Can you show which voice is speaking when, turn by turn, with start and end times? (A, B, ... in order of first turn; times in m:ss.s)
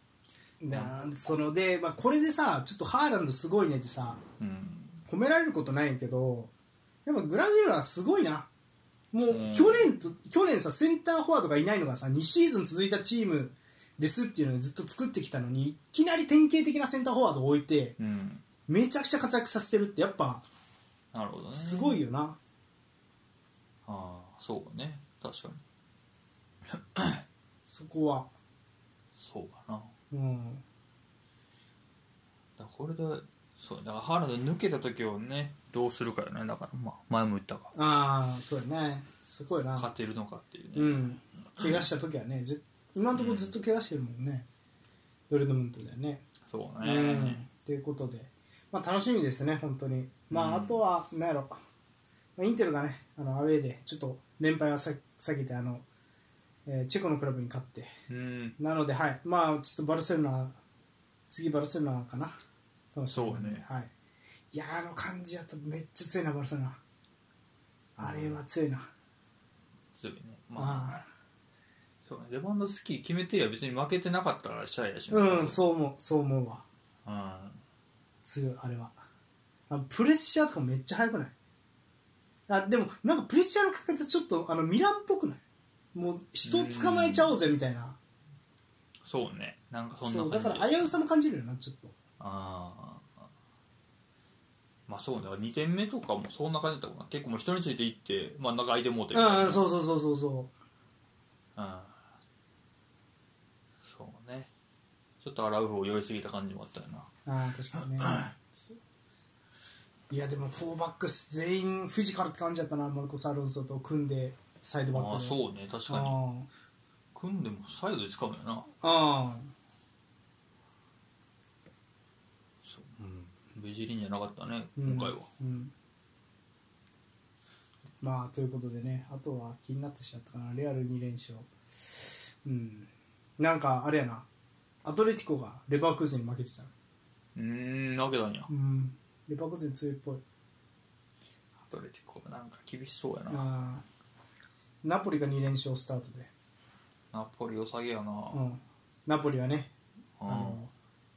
0:00.6-0:04.2 A
0:00.7-0:01.0 B
0:04.4-0:05.0 B
0:05.0-0:06.5 A
0:07.0-0:08.5 A
0:09.1-0:18.0 A
0:09.3-0:09.9 B
0:18.0-0:18.4 B
0:18.6-0:20.4 A
0:21.1-0:22.0 B
0:21.5-0:22.4 A
0:23.8-0:25.6 B
0:26.7-0:27.2 B
0:27.6-0:28.3 A
0:29.1-0:29.9 B
0:30.1-0:30.6 A
0:32.6-0:37.7 B
0:37.7-0:39.9 A
0:39.8-0:41.0 B
0:40.7-0:44.4 A
0:43.1-0:43.5 B
0:45.3-0:46.2 A
0:46.4-0:47.4 B
0:46.8-0:51.5 A
0:50.3-0:50.8 B
0:52.4-0:55.8 A
0:56.6-0:57.9 A
0:58.1-0:58.6 B
0:58.6-1:00.6 A
1:01.3-1:02.4 A
1:02.9-1:03.9 A
1:03.1-1:03.6 B
1:04.5-1:06.8 A
1:08.0-1:08.9 A
1:08.0-1:08.4 B
1:09.9-1:11.0 B
1:10.6-1:11.1 A
1:12.0-1:15.6 B
1:15.1-1:16.6 A
1:17.0-1:17.6 B
1:18.2-1:19.0 A
1:19.7-1:21.3 A
1:22.5-1:25.4 A
1:25.9-1:28.0 A
1:26.4-1:27.3 B
1:29.0-1:30.9 B
1:30.0-1:31.9 A
1:32.2-1:33.2 B
1:34.9-1:39.6 B
1:39.1-1:40.5 A
1:41.6-1:42.0 B
1:43.8-1:44.5 B
1:45.2-1:47.1 B
1:47.2-1:48.8 A
1:50.1-1:56.5 A
1:54.9-1:56.2 B
1:57.1-1:58.7 B
1:58.8-1:59.5 A
2:02.6-2:05.3 B
2:04.8-2:05.7 A
2:08.0-2:14.2 A
2:14.8-2:16.7 A
2:17.3-2:18.5 B
2:18.5-2:20.2 A
2:21.6-2:23.5 B
2:23.3-2:23.8 A
2:24.8-2:26.3 A
2:27.1-2:28.4 B
2:28.3-2:29.7 A
2:30.2-2:30.6 B
2:30.2-2:30.7 A